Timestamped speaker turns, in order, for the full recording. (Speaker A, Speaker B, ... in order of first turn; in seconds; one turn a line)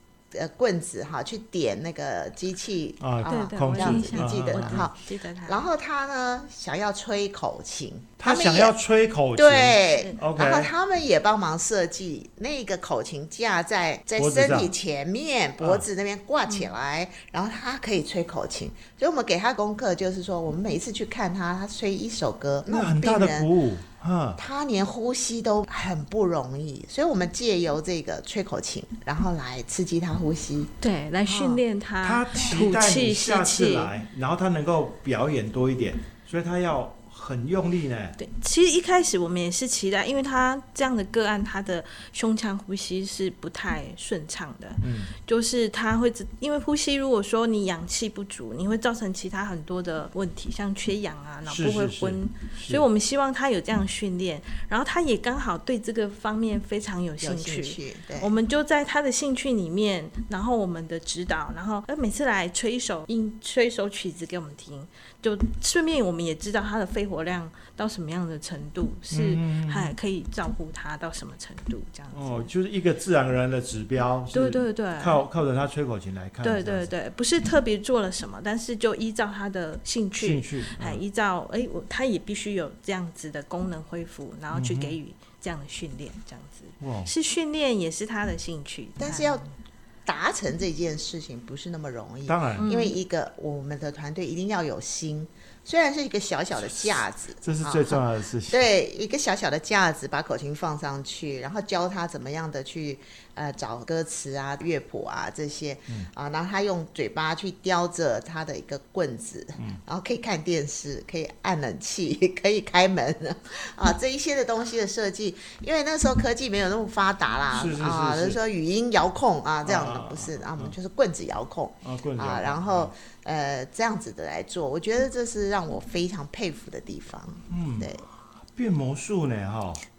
Speaker A: 0.3-8.7
Speaker B: 3.0-4.9
Speaker C: 3.2-5.6
Speaker B: 8.2-10.7
Speaker A: 9.3-23.5
Speaker B: 14.2-14.7
Speaker B: 22.7-24.4
Speaker A: 24.4-30.7
Speaker C: 30.8-33.9
Speaker A: 31.3-31.6
Speaker B: 32.0-38.2
Speaker C: 38.2-72.5
Speaker B: 44.8-45.1
Speaker B: 51.5-52.9
Speaker A: 57.2-58.3
Speaker B: 69.1-69.9
Speaker B: 72.1-76.9
Speaker C: 74.3-75.2
Speaker C: 76.4-89.4
Speaker B: 80.2-81.0
Speaker B: 84.5-85.0
Speaker B: 86.8-87.1
Speaker A: 89.0-89.5
Speaker A: 90.0-128.0
Speaker B: 92.3-92.7
Speaker C: 92.6-92.9
Speaker B: 96.6-98.7
Speaker B: 117.5-118.4
Speaker B: 119.6-120.7
Speaker B: 121.8-122.9
Speaker B: 127.5-127.9
Speaker B: 128.5-129.8